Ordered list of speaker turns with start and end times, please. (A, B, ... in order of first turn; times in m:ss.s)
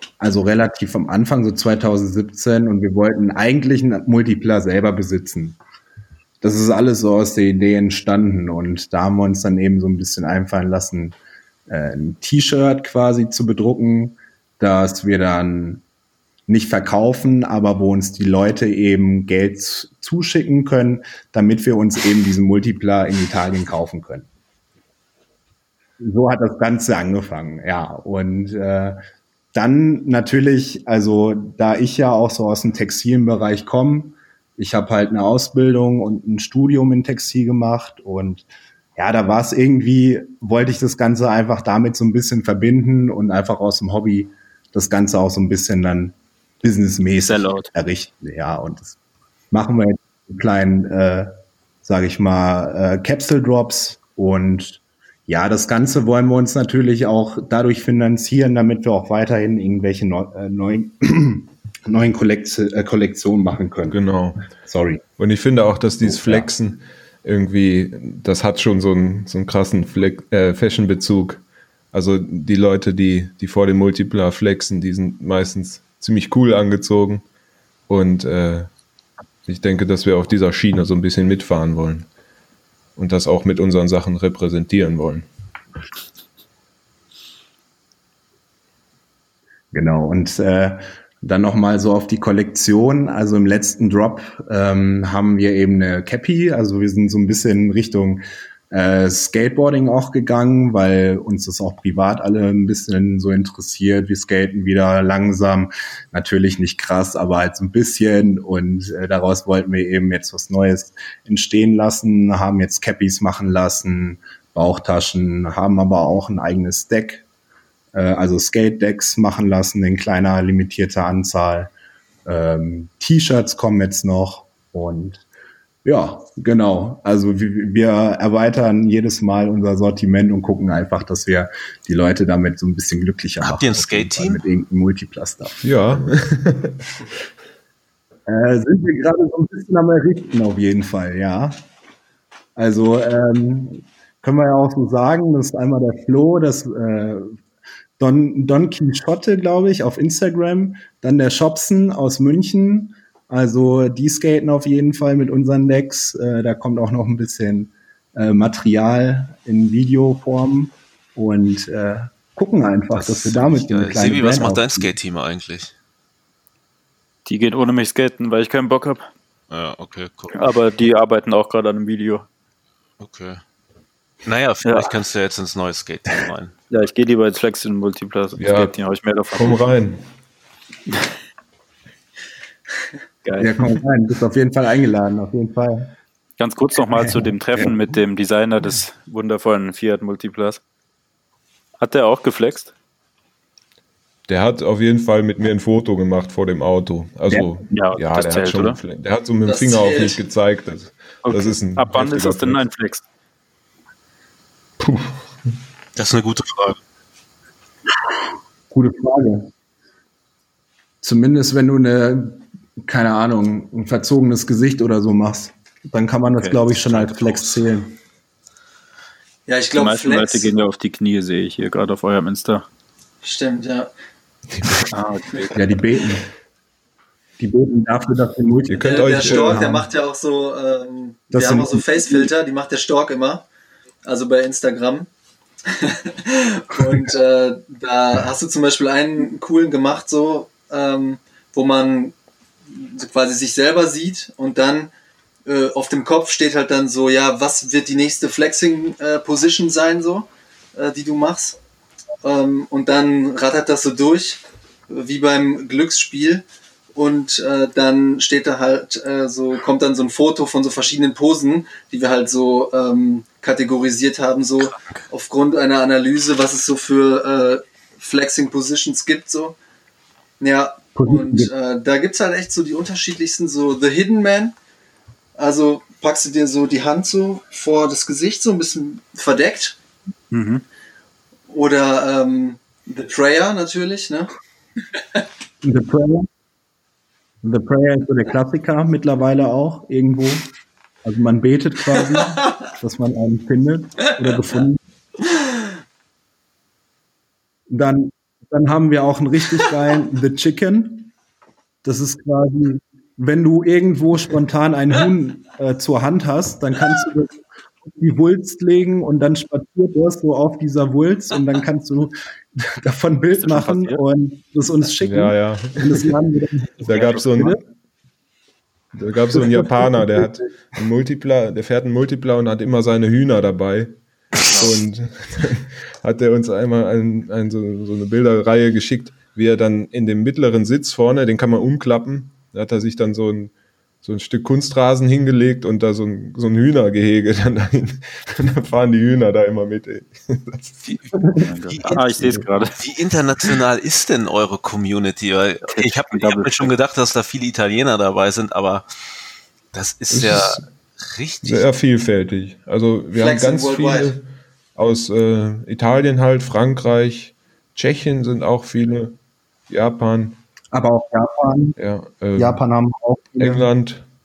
0:00.2-0:05.6 A
0:06.4-0:11.2 A
0:11.7-0:15.8 A
0:16.5-0:24.3 A
0:26.0-0:29.0 A
0:29.5-0:49.0 A
0:47.2-0:47.7 B
0:49.5-0:51.3 A
0:51.8-1:04.0 A
1:03.9-1:04.5 C
1:04.5-1:05.0 A
1:05.2-1:17.2 C
1:06.0-1:06.5 A
1:17.9-1:18.7 C
1:19.4-1:22.1 C
1:23.0-1:25.3 C
1:29.7-1:57.2 A
1:57.9-2:01.7 A
2:02.2-2:05.2 A
2:05.8-2:16.1 A
2:13.4-2:14.4 D
2:15.6-2:16.8 C
2:18.2-2:21.6 A
2:22.6-2:27.4 A
2:28.0-2:44.9 A
2:42.9-2:45.7 D
2:47.2-2:49.0 B
2:49.5-2:50.5 D
2:50.3-2:52.2 B
2:53.0-2:53.4 D
2:54.2-2:56.6 D
2:54.6-2:54.9 B
2:56.7-2:59.6 B
2:58.4-2:58.8 C
2:59.3-3:00.0 C
3:03.2-3:03.8 B
3:03.4-3:05.9 A
3:06.4-3:10.6 B
3:07.0-3:07.7 A
3:11.8-3:12.7 B
3:14.3-3:22.6 C
3:17.3-3:17.5 A
3:17.7-3:18.8 B
3:19.4-3:20.2 E
3:21.2-3:23.0 B
3:24.8-3:25.2 C
3:26.0-3:26.8 D
3:28.7-3:29.5 A
3:31.0-3:38.0 A
3:36.3-3:36.6 B
3:36.7-3:37.6 D
3:39.5-3:40.5 E
3:39.8-3:42.6 B
3:43.2-3:43.9 E
3:44.6-3:44.8 C
3:44.9-3:45.6 B
3:45.5-3:46.2 A
3:47.4-3:49.9 A
3:48.7-3:49.7 C
3:48.8-3:53.4 E
3:51.3-3:52.3 A
3:54.0-3:55.1 E
3:55.6-4:02.1 E
4:02.7-4:04.9 E
4:05.4-4:11.6 E
4:12.2-4:29.6 E
4:24.6-4:25.1 D
4:30.4-4:34.5 E
4:31.0-4:31.5 A
4:35.4-4:39.8 E
4:40.3-4:40.6 B
4:41.5-4:44.3 E
4:45.6-4:46.3 A
4:47.4-4:50.5 A
4:51.0-4:54.8 A
4:57.7-5:01.1 A
5:01.8-5:17.5 A
5:13.4-5:14.0 B
5:15.0-5:16.1 C
5:16.8-5:17.6 C
5:16.8-5:17.6 B
5:18.9-5:40.8 C
5:19.6-5:19.9 A
5:24.5-5:24.7 B
5:40.8-5:48.8 D
5:41.4-5:42.8 B
5:45.7-5:46.7 B
5:49.7-5:51.7 D
5:50.1-5:50.6 C
5:51.4-5:59.2 C
5:53.2-5:54.1 E
5:59.7-6:00.4 C
6:00.7-6:01.8 A
6:01.8-6:02.6 C
6:02.4-6:03.7 A
6:03.4-6:04.0 C